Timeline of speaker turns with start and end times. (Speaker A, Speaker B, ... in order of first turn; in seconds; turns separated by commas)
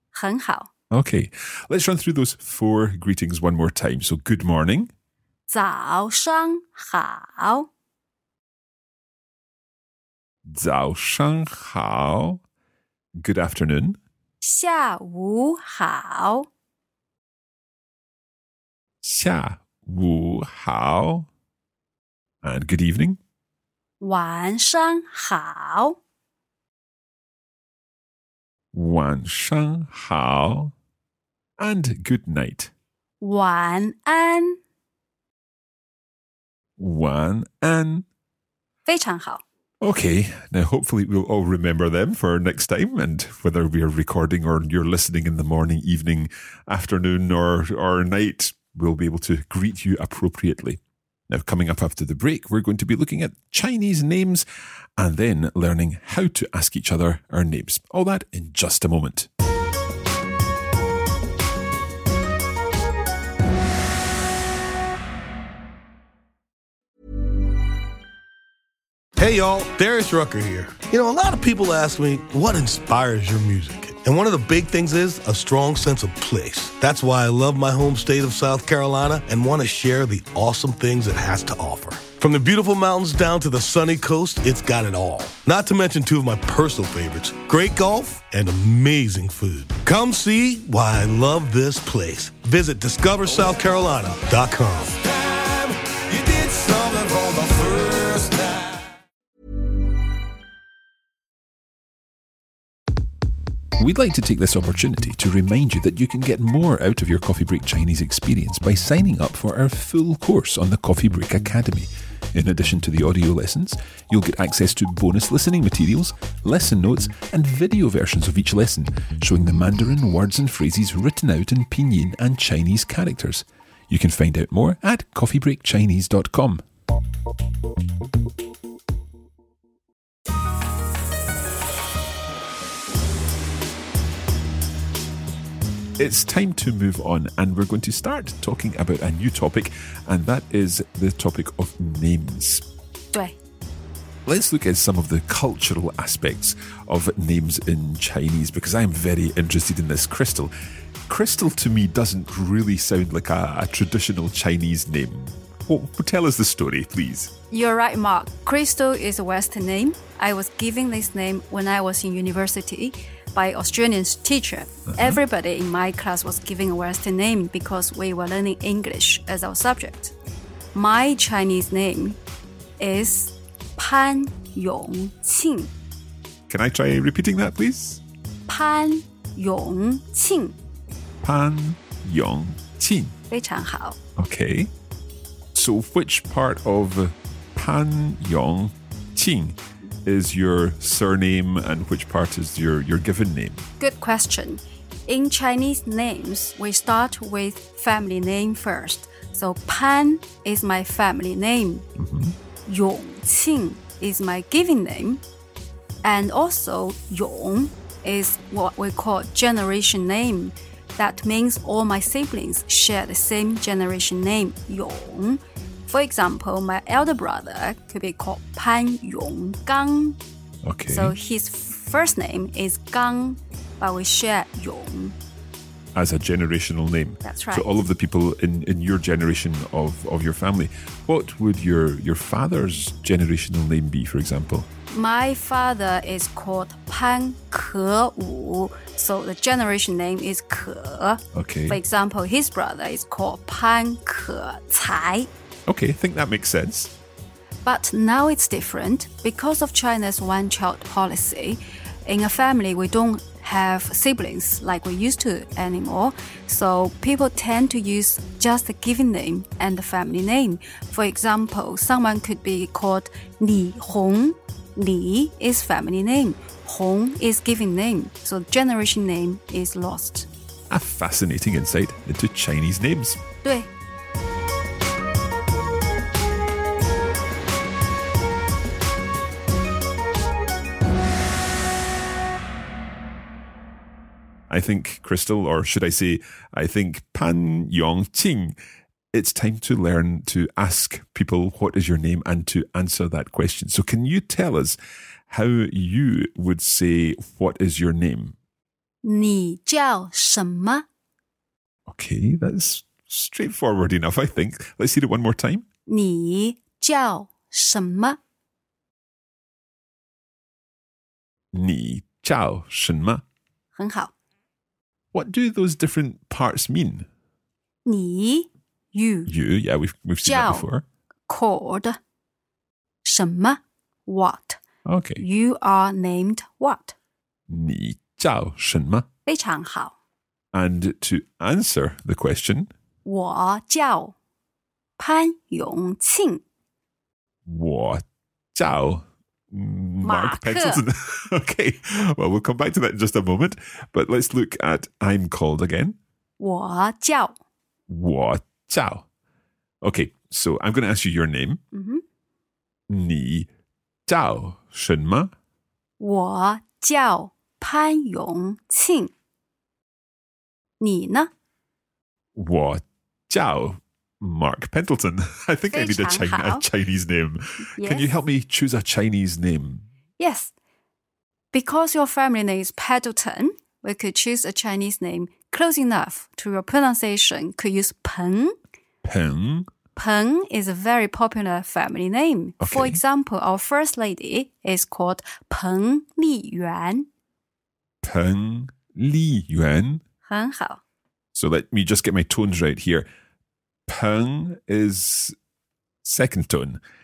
Speaker A: 0.1-0.7, Speaker B: 0.9-4.9, Speaker A: 5.5-7.7, Speaker B: 10.5-12.4, Speaker B: 13.2-14.0, Speaker A: 14.4-16.5, Speaker B: 19.0-21.3, Speaker B: 22.4-23.2, Speaker A: 24.0-26.0, Speaker B: 28.7-30.7, Speaker B: 31.6-32.7, Speaker A: 33.2-34.6, Speaker B: 36.8-38.0, Speaker A: 38.9-39.4, Speaker B: 39.8-54.5, Speaker B: 55.0-59.3, Speaker C: 69.2-98.8, Speaker B: 103.8-126.6, Speaker B: 136.0-142.7, Speaker B: 144.3-150.5, Speaker B: 151.1-157.3, Speaker A: 157.5-170.1, Speaker B: 164.9-165.2, Speaker A: 170.7-172.2, Speaker A: 172.8-175.7, Speaker B: 176.5-178.0, Speaker A: 178.5-180.6, Speaker B: 181.2-183.1, Speaker A: 183.3-184.0, Speaker B: 184.2-184.7, Speaker B: 185.5-193.7, Speaker A: 193.8-201.8, Speaker B: 202.0-202.3, Speaker A: 202.7-205.2, Speaker A: 206.0-220.2, Speaker B: 220.7-221.2, Speaker A: 220.9-225.2, Speaker B: 225.9-234.7, Speaker A: 227.2-227.7, Speaker A: 234.9-245.3, Speaker B: 241.3-241.8, Speaker B: 245.7-246.9, Speaker A: 247.7-270.3, Speaker B: 270.7-273.2, Speaker A: 273.4-273.7, Speaker B: 284.5-288.6, Speaker B: 289.1-294.8, Speaker B: 295.3-298.4, Speaker A: 299.0-300.9, Speaker B: 301.9-305.7, Speaker A: 305.9-308.2, Speaker B: 311.5-313.2, Speaker A: 313.8-314.1, Speaker B: 315.1-317.1, Speaker A: 317.9-319.3, Speaker B: 319.3-320.9, Speaker A: 320.2-320.7, Speaker A: 321.3-322.0, Speaker A: 323.1-324.6, Speaker B: 324.9-325.2, Speaker A: 325.2-326.9, Speaker B: 327.5-329.1, Speaker A: 329.3-329.9, Speaker B: 330.5-332.7, Speaker A: 333.1-334.1, Speaker A: 335.0-336.4, Speaker B: 337.5-346.0, Speaker A: 340.0-340.8, Speaker A: 346.4-347.4, Speaker B: 347.9-349.1, Speaker B: 349.8-351.6, Speaker A: 351.7-352.0, Speaker B: 352.9-353.5, Speaker B: 354.1-355.3, Speaker A: 356.0-359.1, Speaker A: 360.8-361.3, Speaker B: 362.4-369.9, Speaker A: 365.7-366.6, Speaker A: 367.8-368.1, Speaker A: 370.2-370.5, Speaker A: 371.5-378.6, Speaker B: 379.0-379.7, Speaker A: 380.0-387.1, Speaker B: 382.6-383.0, Speaker B: 388.0-390.0, Speaker A: 390.3-390.8, Speaker B: 391.3-393.1, Speaker B: 393.9-395.4, Speaker B: 396.0-396.8